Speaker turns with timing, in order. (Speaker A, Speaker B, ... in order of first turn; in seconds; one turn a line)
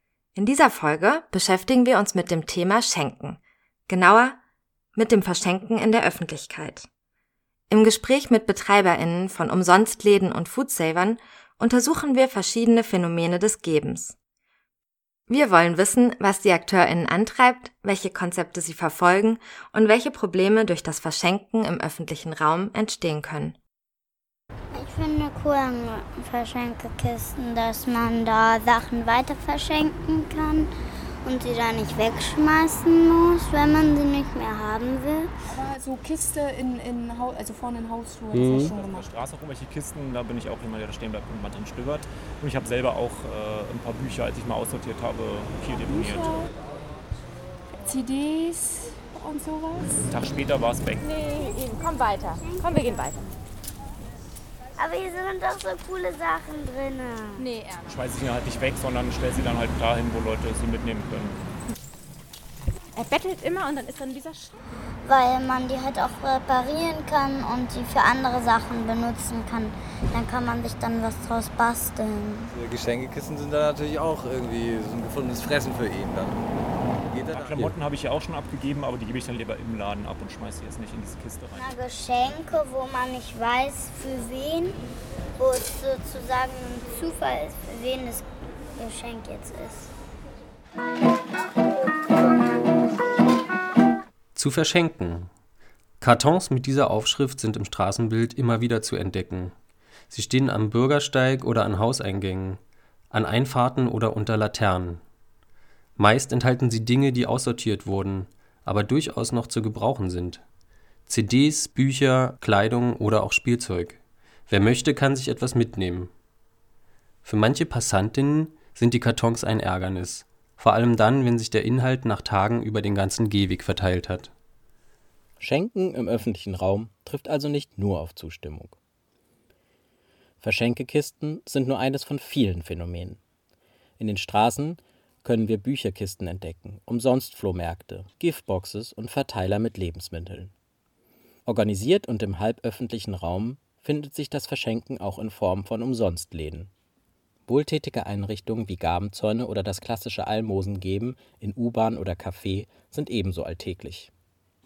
Speaker A: 0.4-4.4
Speaker A: 5.0-6.9
Speaker A: 7.7-14.1
Speaker A: 15.3-23.6
Speaker B: 24.7-30.7
Speaker B: 31.2-35.3
Speaker C: 35.5-39.1
Speaker D: 38.3-38.7
Speaker E: 38.5-46.4
Speaker C: 45.9-46.5
Speaker C: 47.8-50.1
Speaker E: 50.1-51.0
Speaker F: 51.0-53.4
Speaker B: 54.8-57.4
Speaker F: 57.4-57.9
Speaker E: 57.9-61.5
Speaker F: 63.0-64.6
Speaker B: 65.0-72.5
Speaker D: 72.5-76.4
Speaker D: 77.1-77.7
Speaker E: 77.3-81.7
Speaker B: 81.5-84.8
Speaker B: 85.4-88.2
Speaker B: 88.8-89.9
Speaker G: 94.3-95.3
Speaker G: 96.0-99.5
Speaker G: 100.1-105.0
Speaker G: 106.0-110.4
Speaker G: 111.1-116.1
Speaker G: 117.2-124.3
Speaker H: 125.4-128.8
Speaker H: 130.4-133.2
Speaker H: 134.0-140.5
Speaker H: 141.5-146.7
Speaker H: 147.5-154.1